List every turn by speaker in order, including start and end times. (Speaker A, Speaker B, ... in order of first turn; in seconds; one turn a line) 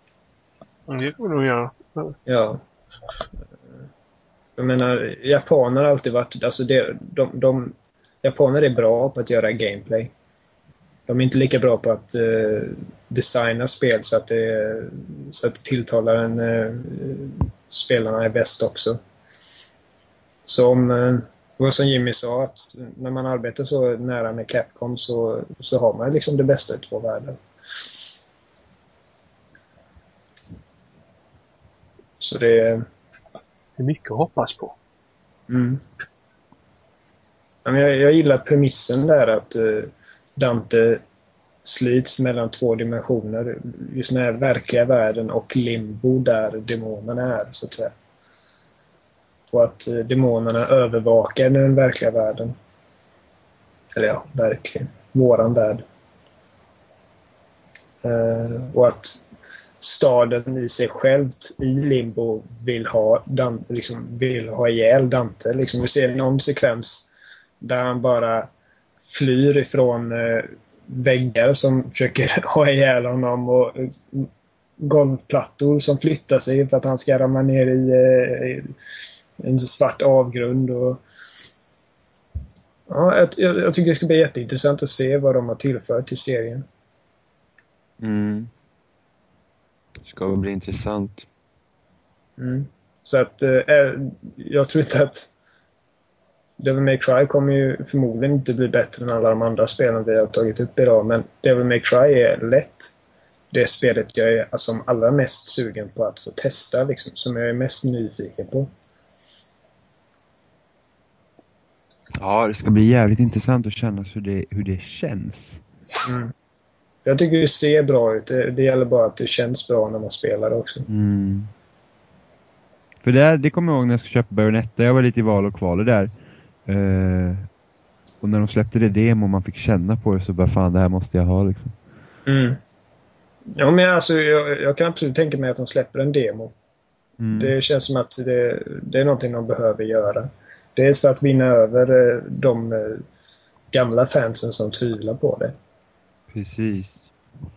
Speaker A: 0.9-2.2
Speaker B: 2.3-2.6
Speaker B: 4.6-10.1
Speaker B: 11.1-19.0
Speaker B: 20.4-27.4
Speaker B: 32.2-32.9
Speaker A: 33.8-34.8
Speaker B: 35.5-35.8
Speaker B: 37.6-41.0
Speaker B: 41.6-47.9
Speaker B: 49.5-52.5
Speaker B: 53.9-55.8
Speaker B: 58.0-59.2
Speaker B: 59.8-67.1
Speaker B: 67.6-68.5
Speaker B: 69.1-78.7
Speaker B: 79.4-81.0
Speaker B: 82.9-86.7
Speaker C: 88.0-88.5
Speaker C: 90.0-91.3
Speaker B: 92.4-95.3
Speaker B: 96.6-103.0
Speaker B: 103.5-108.7
Speaker C: 112.2-115.6
Speaker B: 116.0-116.3
Speaker B: 117.0-120.9
Speaker C: 120.9-121.5
Speaker C: 123.0-126.1
Speaker C: 126.7-127.5
Speaker C: 128.2-131.7
Speaker B: 132.3-132.6
Speaker B: 133.5-136.6
Speaker C: 137.2-137.6
Speaker B: 137.3-143.1
Speaker B: 143.7-145.6
Speaker C: 146.3-147.1